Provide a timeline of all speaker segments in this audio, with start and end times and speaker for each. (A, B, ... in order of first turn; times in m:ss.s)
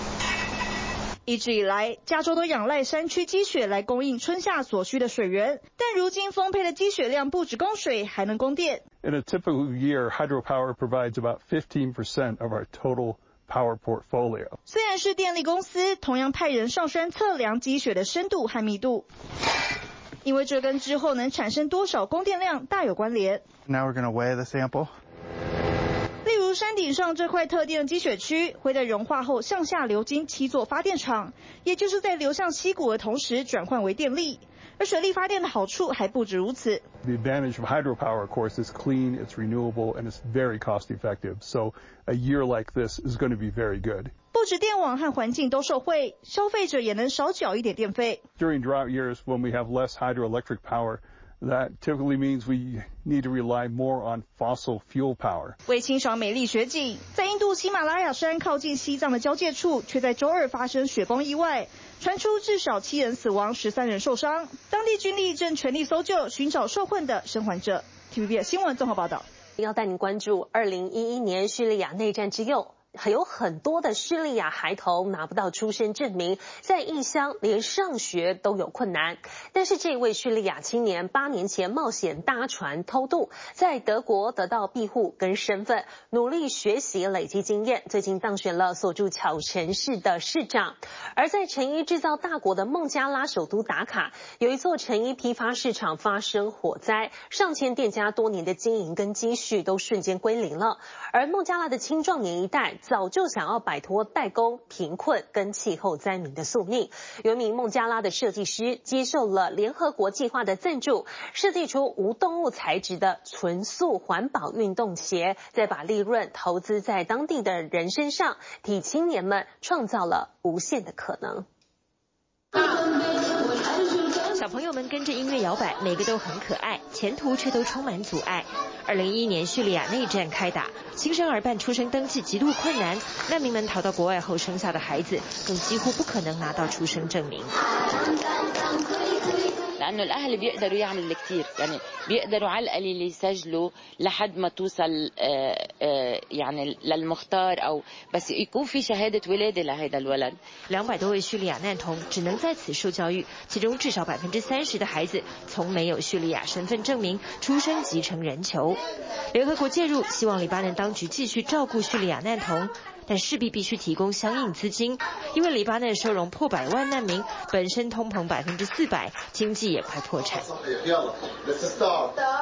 0:01.3-0:08.8 A
0:09.0-0:14.6 B
0:14.7-0:19.0 A
0:20.2-0:23.4 A
0:26.2-0:36.9 A
0:37.0-0:44.2 B
0:44.3-0:48.2 A
0:48.4-0:55.6 B
0:55.6-1:09.2 A
1:09.6-2:01.4 C
2:04.3-2:17.6 D
2:19.8-2:30.4 E
2:30.7-2:38.8 D
2:39.3-2:50.5 D